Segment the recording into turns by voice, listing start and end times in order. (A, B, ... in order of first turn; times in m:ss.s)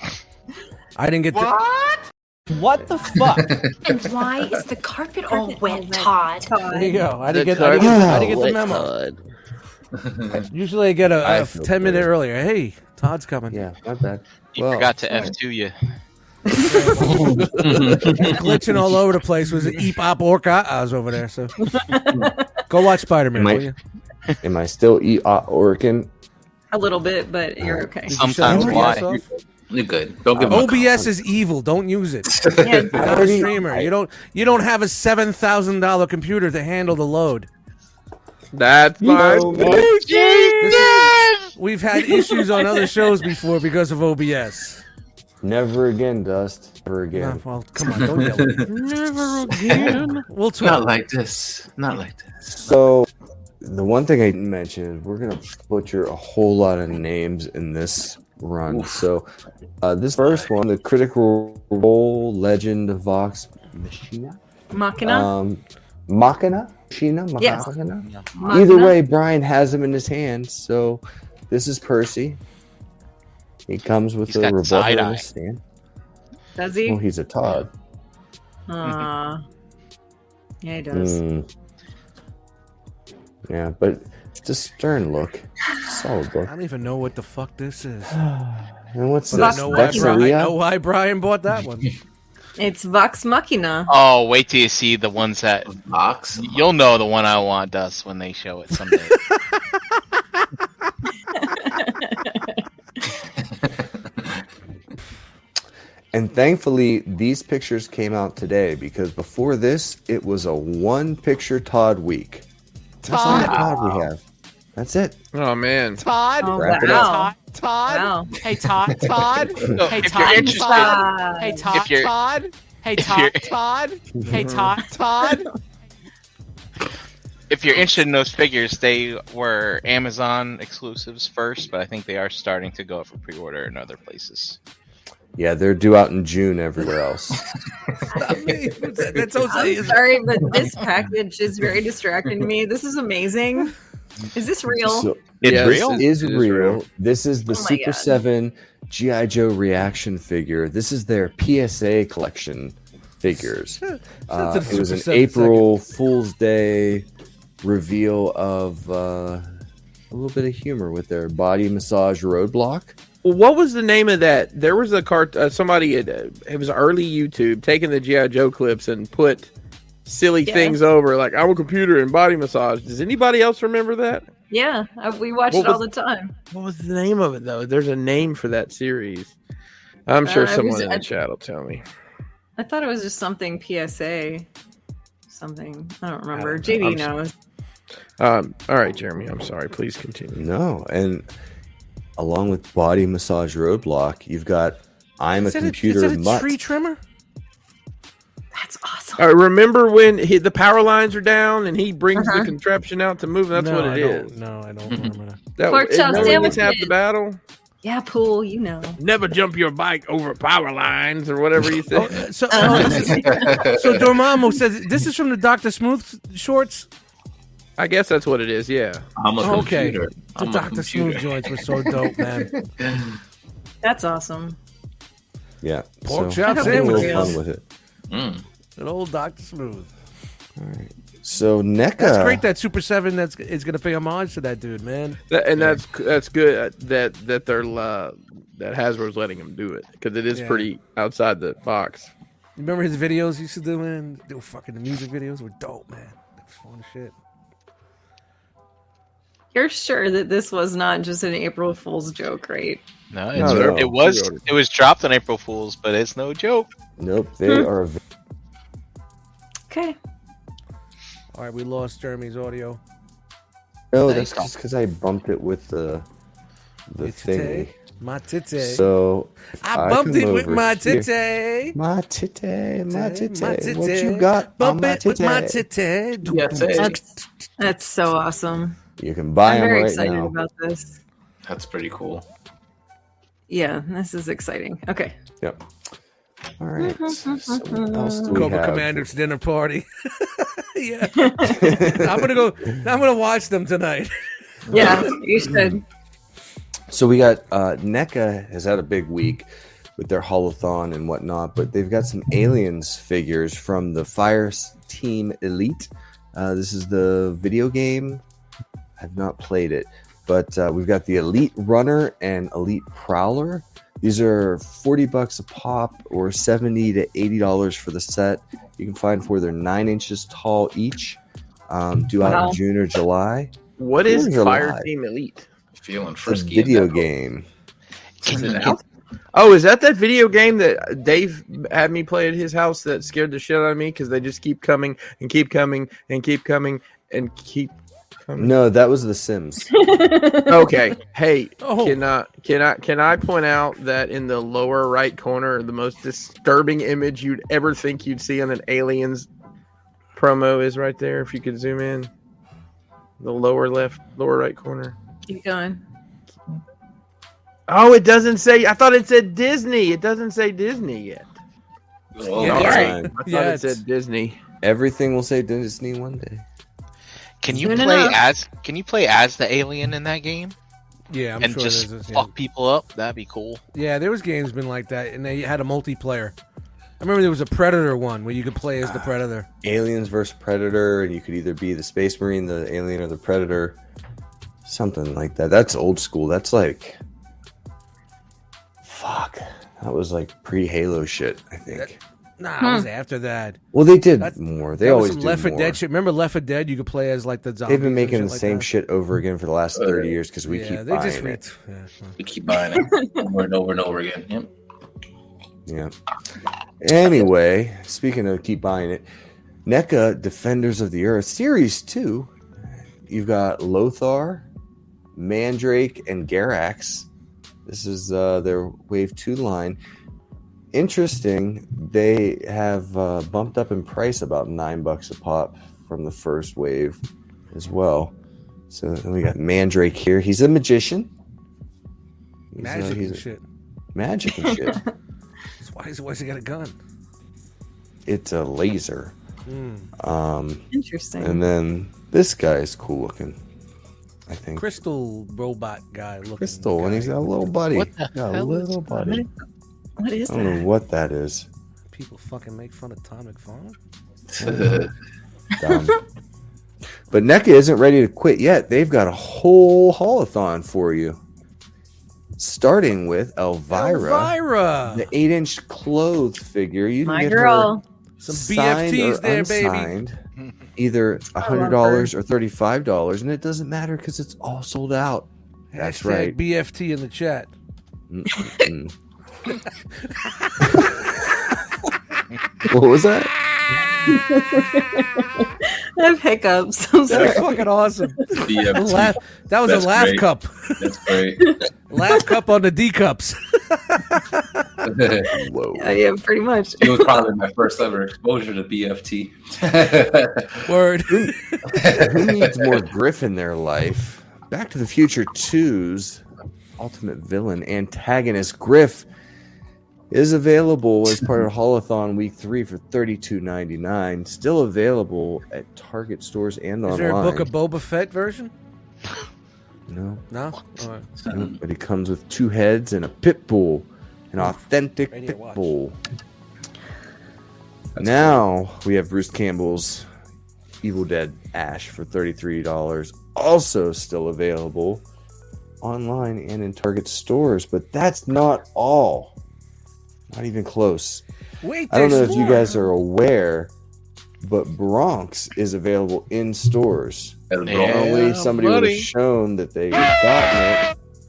0:01.0-0:01.5 A
0:01.4-0:02.0 B
0:02.5-0:03.6 A
0:03.1-0:04.0 C
0:03.8-0:06.5 D
0:05.3-0:07.1 E
0:06.7-0:08.9 A
0:07.2-0:09.1 F
0:07.8-0:08.5 G
0:10.0-0:10.4 C
0:10.5-0:13.6 A
0:11.2-0:12.1 G
0:13.5-0:15.3 G
0:14.6-0:15.8 H
0:16.5-0:17.1 E
0:16.6-0:21.5 A
0:17.0-0:17.6 G
0:17.2-0:18.6 C
0:21.6-0:22.5 E
0:22.7-0:23.7 A
0:23.4-0:23.7 G
0:24.4-0:26.1 G
0:26.7-0:28.2 E
0:27.6-0:27.9 G
0:28.1-0:29.2 A
0:28.1-0:29.1 H
0:28.4-0:29.0 G
0:28.6-0:29.2 C
0:29.7-0:30.9 C
0:30.3-0:31.1 G
0:30.5-0:32.3 A
0:32.3-0:33.0 C
0:32.6-0:33.5 E
0:32.9-0:33.9 G
0:32.9-0:37.5 A
0:38.5-0:40.2 F
0:39.0-0:39.9 G
0:39.4-0:41.4 C
0:40.6-0:41.0 A
0:41.6-0:44.8 A
0:45.4-0:47.4 G
0:47.1-0:50.9 A
0:47.8-0:48.7 C
0:49.6-0:50.0 C
0:50.6-0:52.5 C
0:52.5-0:53.1 G
0:53.6-0:59.3 G
0:58.7-0:59.0 C
0:59.8-1:04.4 G
1:04.7-1:05.3 E
1:05.0-1:12.4 G
1:07.4-1:07.7 E
1:08.4-1:09.0 E
1:13.7-1:15.6 G
1:14.3-1:15.2 H
1:16.6-1:17.0 E
1:16.8-1:17.7 G
1:18.7-1:19.4 E
1:20.6-1:21.2 E
1:20.9-1:21.5 G
1:23.5-1:26.5 G
1:26.5-1:28.2 A
1:28.1-1:30.6 G
1:29.3-1:31.9 A
1:29.3-1:30.3 E
1:32.6-1:33.9 E
1:33.9-1:35.7 H
1:35.7-1:36.7 C
1:36.4-1:39.2 H
1:41.3-1:42.6 E
1:43.4-1:44.4 C
1:46.1-1:52.4 G
1:53.0-1:54.2 G
1:53.0-1:53.7 B
1:53.3-1:54.0 C
1:54.8-1:55.2 G
1:55.3-1:56.0 F
1:56.0-2:05.5 B
1:56.4-1:57.4 E
1:56.5-1:57.1 G
1:57.9-1:58.4 E
1:58.9-1:59.8 C
1:59.7-2:01.2 H
2:00.1-2:01.7 E
2:01.7-2:02.1 H
2:03.0-2:03.5 H
2:04.3-2:04.7 F
2:07.5-2:14.6 H
2:15.4-2:17.4 G
2:18.1-2:20.1 A
2:19.4-2:23.7 E
2:20.5-2:20.8 C
2:24.3-2:25.1 E
2:24.8-2:37.1 G
2:25.4-2:26.0 H
2:25.4-2:26.8 F
2:27.5-2:28.1 E
2:33.3-2:35.7 A
2:37.6-2:39.5 G
2:40.1-2:43.0 G
2:43.2-2:49.5 F
2:50.0-2:54.3 F
2:50.4-2:50.8 E
2:54.5-2:56.3 E
2:55.5-2:55.8 F
2:56.5-2:59.3 F
3:00.1-3:01.8 F
3:00.2-3:01.1 E
3:02.6-3:04.5 E
3:05.3-3:07.3 E
3:06.3-3:07.1 F
3:08.2-3:10.4 F
3:10.3-3:11.3 G
3:12.2-3:16.6 G
3:15.4-3:17.0 A
3:18.5-3:19.3 E
3:19.2-3:24.4 F
3:22.1-3:22.5 E
3:23.5-3:25.4 A
3:24.9-3:25.1 C
3:25.6-3:27.4 F
3:25.7-3:27.0 E
3:26.1-3:26.6 G
3:27.8-3:29.0 E
3:29.0-3:32.2 F
3:31.9-3:36.9 A
3:32.5-3:33.6 E
3:32.7-3:34.1 C
3:37.8-3:39.0 F
3:39.2-3:43.2 C
3:39.4-3:42.5 A
3:43.8-3:44.6 E
3:45.6-3:47.6 G
3:46.1-3:47.4 A
3:46.4-3:47.4 E
3:48.1-3:48.4 C
3:48.8-3:49.9 A
3:50.6-3:52.4 G
3:52.0-3:55.2 A
3:55.3-4:02.1 F
4:00.3-4:00.7 A
4:02.6-4:07.1 A
4:09.5-4:12.8 E
4:13.1-4:16.7 H
4:13.4-4:14.2 G
4:17.0-4:18.0 G
4:19.7-4:20.0 E
4:21.3-4:22.8 A
4:23.9-4:26.1 G
4:24.1-4:24.5 H
4:26.9-4:27.7 G
4:27.0-4:28.9 A
4:28.6-4:31.1 G
4:29.6-4:31.8 A
4:31.7-4:35.6 G
4:32.9-4:37.2 A
4:36.2-4:37.0 C
4:37.6-4:38.8 E
4:39.0-4:40.4 G
4:39.4-4:41.0 E
4:41.4-4:42.2 C
4:43.5-4:45.1 E
4:46.6-4:49.1 G
4:46.8-4:48.4 E
4:48.3-4:54.2 A
4:51.1-4:51.7 E
4:51.4-4:52.4 G
4:54.7-4:55.8 E
4:54.7-4:55.8 G
4:56.9-5:08.2 G
5:09.0-5:24.9 G
5:22.2-5:22.6 E
5:23.8-5:25.5 F
5:25.7-5:27.0 C
5:26.2-5:27.4 G
5:28.3-5:28.8 C
5:28.3-5:28.6 H
5:29.3-5:37.7 F
5:38.3-5:38.6 F
5:38.4-5:39.7 G
5:39.7-5:40.8 E
5:40.5-5:49.3 F
5:41.6-5:42.0 A
5:50.2-5:52.1 F
5:53.2-5:55.0 F
5:55.3-5:55.8 E
5:57.7-6:01.3 F
6:02.1-6:03.0 C
6:02.4-6:03.8 A
6:02.4-6:04.4 F
6:02.5-6:03.1 G
6:02.5-6:03.0 E
6:04.6-6:06.4 G
6:07.4-6:10.6 H
6:07.5-6:08.2 E
6:11.1-6:12.3 A
6:11.4-6:13.6 H
6:13.7-6:16.3 A
6:17.0-6:19.4 A
6:18.8-6:19.1 G
6:19.6-6:23.8 G
6:24.6-6:27.0 G
6:28.8-6:32.0 G
6:31.7-6:33.6 A
6:32.6-6:32.9 E
6:33.7-6:35.8 G
6:34.2-6:38.7 A
6:37.7-6:41.4 G
6:39.7-6:40.1 C
6:40.5-6:42.1 A
6:42.2-6:44.5 C
6:42.6-6:43.3 E
6:45.7-6:45.9 G
6:46.8-6:49.1 G
6:49.6-6:54.4 G
6:55.1-6:57.1 G
6:57.7-6:59.8 G
7:00.7-7:07.0 G
7:07.5-7:08.1 G
7:08.7-7:11.1 G
7:12.5-7:13.2 G
7:12.6-7:13.4 A
7:13.9-7:14.8 G
7:14.4-7:14.8 E
7:15.6-7:16.8 A
7:18.1-7:19.1 G
7:19.4-7:19.9 A
7:20.0-7:20.6 G
7:20.7-7:21.4 E
7:21.2-7:23.4 G
7:24.3-7:24.8 G
7:24.6-7:27.2 A
7:26.4-7:29.3 G
7:27.7-7:28.9 H
7:29.0-7:29.3 E
7:30.0-7:30.6 E
7:30.3-7:31.5 G
7:31.9-7:33.8 A
7:34.3-7:34.9 C
7:34.4-7:34.9 G
7:35.6-7:36.0 G
7:35.6-7:35.9 E
7:37.1-7:41.2 G
7:42.4-7:44.4 G
7:43.7-7:45.1 A
7:44.9-7:50.2 G
7:47.0-7:47.8 E
7:48.2-7:49.9 A
7:50.8-7:56.4 G
7:51.4-7:52.1 E
7:55.7-7:57.5 A
7:58.1-7:58.9 G
7:58.3-7:58.6 E
8:00.2-8:00.7 A
8:00.6-8:01.4 G
8:02.6-8:03.3 G
8:04.0-8:07.6 E
8:07.1-8:10.8 A
8:08.3-8:10.3 C
8:10.8-8:11.6 C
8:11.9-8:14.6 A
8:14.8-8:15.3 C
8:15.3-8:16.0 G
8:15.8-8:17.2 E
8:16.8-8:20.6 C
8:20.7-8:21.8 A
8:21.1-8:26.2 G
8:21.7-8:22.7 C
8:26.8-8:29.1 G
8:30.1-8:37.5 G
8:36.9-8:38.5 A
8:39.9-8:40.2 G
8:40.3-8:41.1 A
8:41.2-8:41.6 C
8:41.3-8:46.0 G
8:45.1-8:45.7 A
8:48.0-8:48.4 C
8:48.0-8:50.1 G
8:50.8-8:55.0 G
8:55.8-8:59.4 G
9:00.3-9:01.2 G
9:01.6-9:02.7 A
9:01.9-9:03.7 G
9:04.4-9:10.9 G
9:07.5-9:08.7 C
9:07.7-9:09.0 H